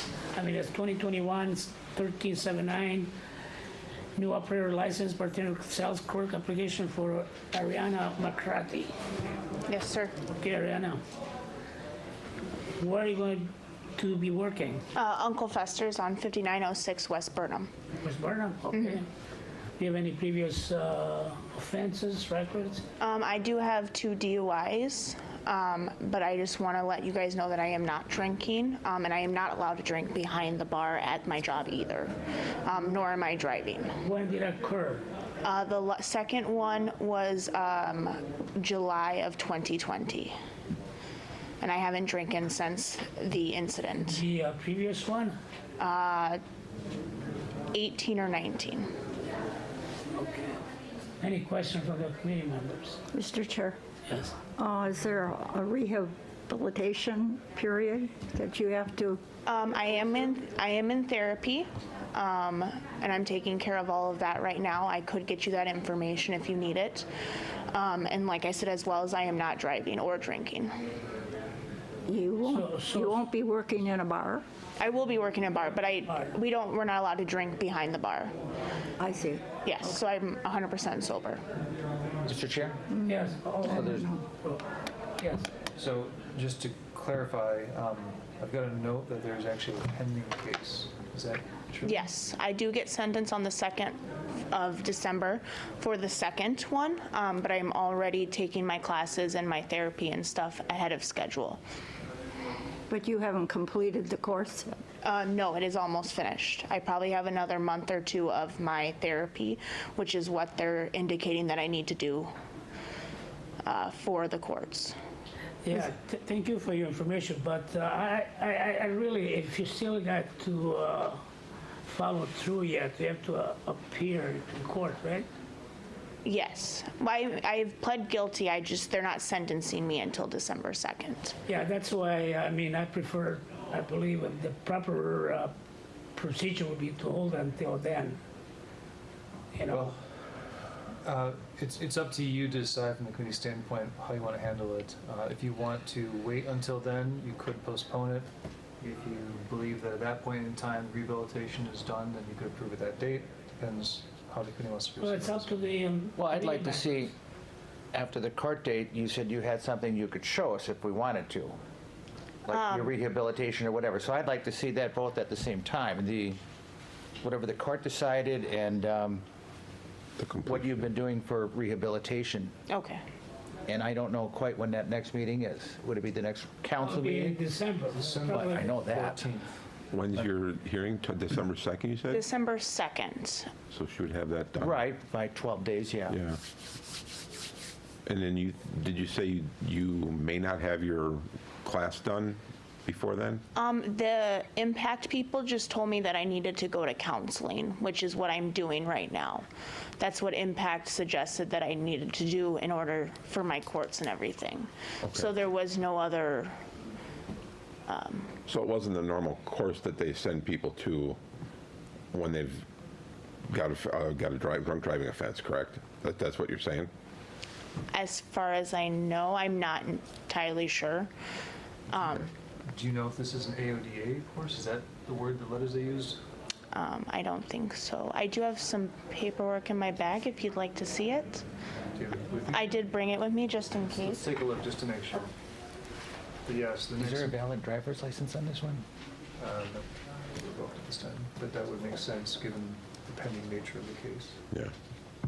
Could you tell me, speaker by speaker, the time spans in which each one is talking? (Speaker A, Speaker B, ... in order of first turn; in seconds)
Speaker A: 0.3-3.1, 4.1-8.9, 10.3-11.0, 12.8-14.8, 18.0-19.1, 19.8-22.8, 34.0-35.0, 44.1-45.4, 50.2-50.6, 51.2-53.0, 54.1-54.3, 72.5-73.1, 83.1-83.7, 85.2-85.5, 115.7-121.2, 121.8-125.3, 131.5-135.5, 136.1-138.2, 139.5-139.9, 155.0-156.8, 176.8-178.6
Speaker B: 9.7-10.3, 14.9-17.7, 18.7-19.0, 23.0-32.1, 32.6-34.0, 35.4-40.3, 41.6-44.2, 45.8-46.4, 47.7-48.9, 59.4-67.0, 67.7-70.7, 74.8-78.3, 79.6-81.4, 91.8-94.0, 94.5-101.6, 105.0-112.3, 113.6-114.9, 126.2-131.4, 162.5-162.9, 172.7-173.0, 182.1-183.5, 193.5-199.4, 200.0-206.5, 207.9-208.3, 217.9-221.1, 221.9-222.3, 226.7-231.4, 232.5-234.3
Speaker C: 53.1-53.8, 54.5-59.2, 72.1-74.4, 79.0-79.5, 82.9-84.2, 102.9-104.7
Speaker D: 82.2-82.8, 83.6-84.1, 156.2-157.1, 157.9-161.6, 162.4-166.4, 167.2-169.2, 170.4-172.5, 173.7-177.4, 178.2-179.2, 184.6-186.2, 237.0-238.8
Speaker E: 85.7-92.0, 139.7-139.9, 141.0-148.3, 148.8-155.6, 177.8-179.6, 222.7-226.2, 231.9-232.8, 233.8-235.3, 236.4-237.3, 239.4-239.8, 240.4-244.4
Speaker F: 170.2-170.8, 179.9-182.2, 183.7-184.8, 186.1-186.4, 188.1-193.4, 205.0-205.3, 208.5-211.2, 212.1-212.6, 213.5-216.9